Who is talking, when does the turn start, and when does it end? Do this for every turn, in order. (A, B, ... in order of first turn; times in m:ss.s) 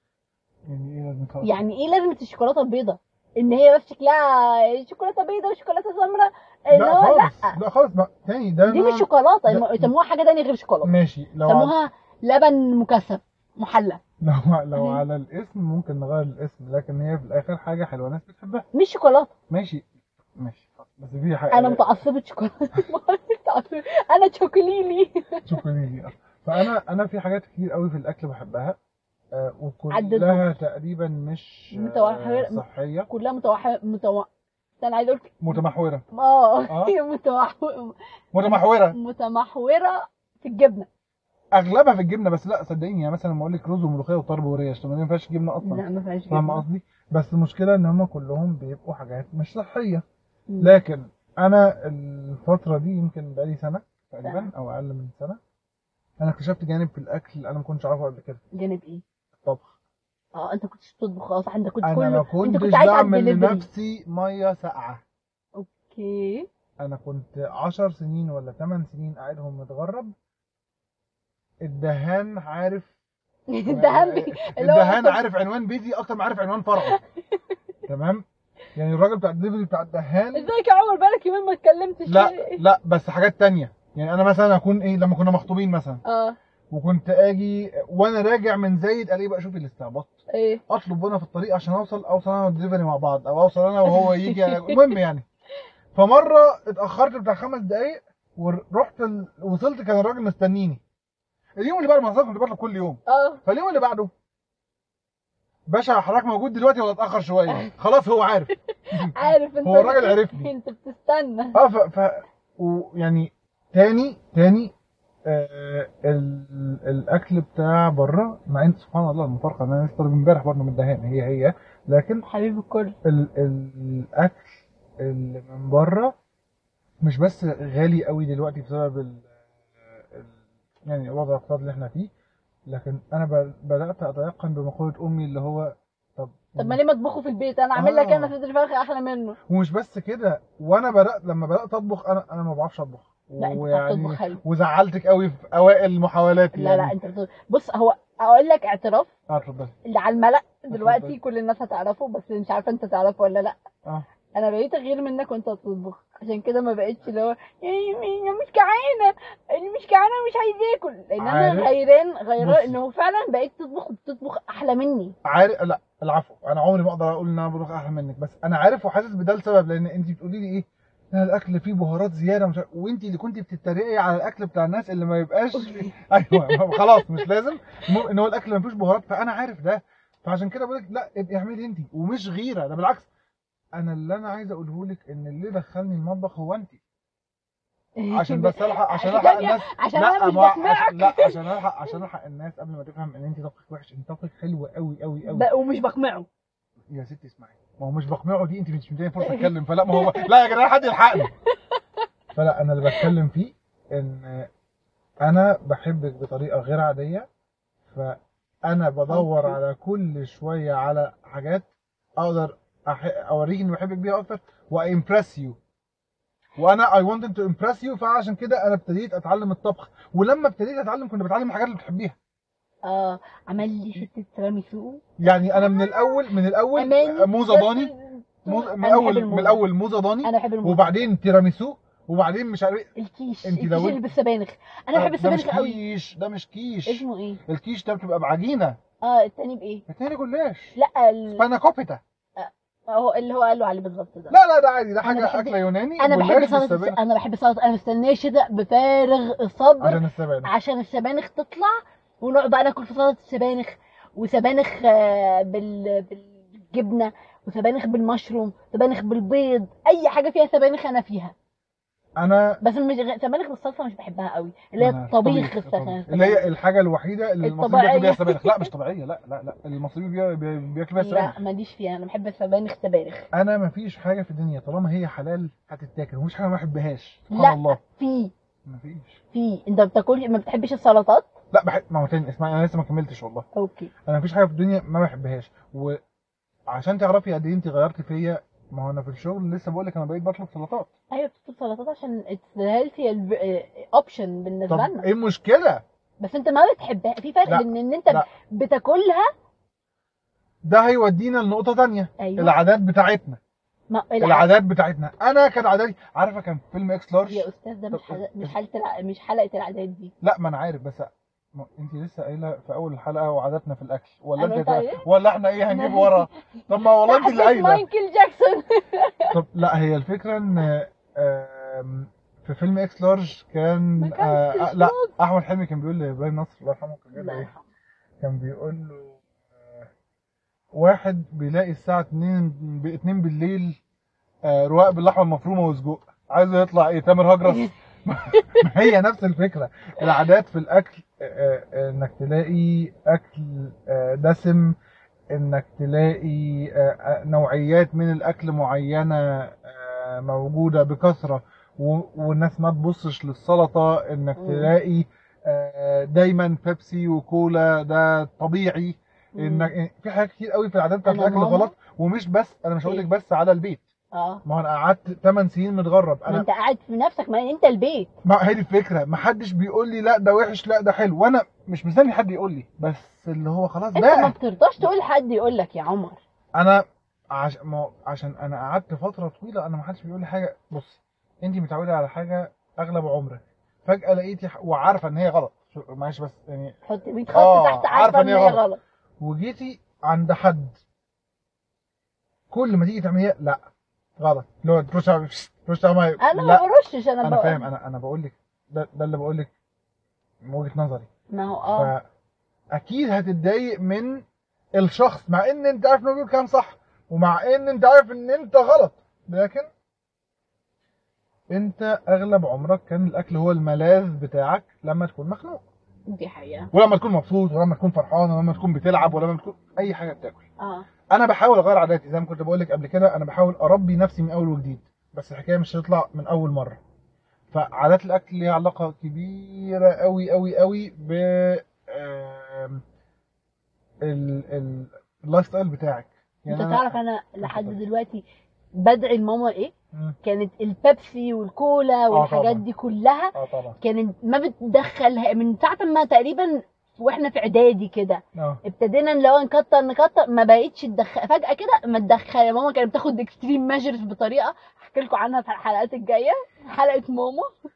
0:00.7-0:01.6 A
0:01.4-0:07.6 B
0:06.7-0:09.9 A
0:08.7-0:10.9 B
0:10.8-0:11.7 A
0:11.4-0:14.0 B
0:14.2-0:18.6 A
0:14.7-0:15.0 B
0:18.7-0:19.3 B
0:19.5-0:19.8 A
0:20.4-0:21.8 A
0:21.5-0:25.6 B
0:25.4-0:28.8 A
0:29.3-0:33.1 A
0:29.9-0:30.5 B
0:31.7-0:34.3 B
0:34.8-0:40.9 B
0:35.4-0:36.0 A
0:36.7-0:36.9 A
0:38.3-0:39.0 A
0:41.5-0:50.0 A
0:45.6-0:46.6 B
0:50.5-0:50.8 B
0:50.6-0:55.4 A
0:54.2-0:54.5 B
0:56.2-0:58.4 A
0:58.5-0:59.0 B
0:59.4-0:59.7 A
1:00.3-1:03.6 B
1:01.8-1:05.0 A
1:05.6-1:06.4 B
1:06.8-1:10.1 A
1:11.6-1:12.9 A
1:13.5-1:15.2 B
1:13.7-1:17.0 A
1:16.8-1:17.6 B
1:17.9-1:18.2 A
1:18.7-1:20.5 A
1:20.3-1:22.6 B
1:22.1-1:26.0 A
1:26.0-1:26.4 B
1:26.7-1:30.2 A
1:30.3-1:30.6 B
1:30.7-1:35.2 A
1:33.9-1:34.8 B
1:35.9-1:40.8 A
1:41.6-1:44.1 A
1:43.1-1:43.4 B
1:45.7-1:50.5 A
1:48.9-1:51.6 B
1:51.5-1:54.7 A
1:55.3-2:02.2 A
2:02.2-2:02.9 B
2:03.0-2:04.5 A
2:05.0-2:06.1 A
2:07.0-2:09.2 A
2:09.9-2:10.3 A
2:10.8-2:12.1 A
2:12.7-2:16.8 A
2:16.6-2:19.4 B
2:17.7-2:18.3 A
2:19.5-2:26.9 A
2:23.4-2:24.4 B
2:26.5-2:29.1 B
2:29.3-2:29.7 A
2:29.9-2:33.6 B
2:30.7-2:31.2 A
2:34.3-2:45.1 B
2:41.2-2:41.7 A
2:42.4-2:42.8 A
2:45.2-3:03.1 A
2:55.5-2:57.2 B
3:03.8-3:06.8 A
3:08.0-3:11.4 B
3:08.1-3:15.5 A
3:15.2-3:16.3 B
3:16.9-3:21.3 A
3:19.2-3:20.3 B
3:21.1-3:22.0 B
3:22.3-3:24.5 A
3:25.2-3:27.3 A
3:27.9-3:31.7 A
3:29.1-3:29.6 B
3:32.2-3:35.6 A
3:36.6-3:42.2 A
3:42.8-3:46.2 B
3:45.2-3:47.9 A
3:46.8-3:49.6 B
3:48.4-3:52.9 A
3:50.2-3:50.9 B
3:53.0-3:55.8 B
3:53.4-3:54.0 A
3:54.9-3:58.8 A
3:56.8-3:57.4 B
3:59.0-3:59.8 B
3:59.9-4:00.8 A
4:00.8-4:01.4 B
4:01.3-4:02.0 A
4:02.4-4:04.3 B
4:04.3-4:07.0 A
4:05.0-4:21.3 B
4:09.8-4:10.5 A
4:22.2-4:22.6 A
4:22.6-4:26.4 B
4:24.8-4:31.4 A
4:27.4-4:28.7 B
4:31.0-4:33.2 B
4:33.3-4:37.8 A
4:37.3-4:38.3 B
4:38.6-4:39.2 A
4:39.3-4:41.2 B
4:41.5-4:43.4 A
4:43.6-4:43.9 B
4:44.0-4:46.0 A
4:46.7-4:50.9 A
4:51.1-4:55.1 B
4:54.7-4:55.8 A
4:56.2-4:59.3 B
4:57.5-4:58.3 A
5:00.6-5:03.4 A
5:02.2-5:02.6 B
5:03.9-5:04.5 B
5:04.2-5:08.5 A
5:07.3-5:10.1 B
5:10.2-5:17.8 A
5:14.4-5:15.0 B
5:15.7-5:19.3 B
5:19.3-5:27.5 A
5:24.0-5:25.1 B
5:27.1-5:27.6 B
5:28.2-5:29.9 A
5:30.7-5:33.8 A
5:34.4-5:44.7 A
5:37.4-5:37.7 B
5:38.4-5:38.7 B
5:45.3-6:03.8 A
5:54.4-5:54.7 B
5:59.4-5:59.7 B
6:01.0-6:01.7 B
6:04.1-6:04.4 B
6:04.4-6:06.5 A
6:06.3-6:08.1 B
6:08.2-6:14.3 A
6:13.9-6:16.2 B
6:16.6-6:26.7 A
6:26.9-6:28.8 B
6:27.3-6:28.6 A
6:29.2-6:30.7 A
6:32.5-6:33.6 A
6:34.2-6:36.6 A
6:36.2-6:37.6 B
6:37.2-6:39.5 A
6:40.4-6:41.1 A
6:41.3-6:41.9 B
6:41.7-6:42.0 A
6:42.7-6:44.2 A
6:44.8-6:49.7 A
6:51.5-6:55.6 A
6:56.1-6:56.7 B
6:56.7-7:00.4 A
7:00.6-7:00.8 B
7:01.1-7:06.8 A
7:07.5-7:12.8 A
7:14.0-7:17.8 A
7:16.5-7:18.2 B
7:18.8-7:19.7 B
7:20.2-7:37.5 B
7:22.1-7:22.6 A
7:23.3-7:23.8 A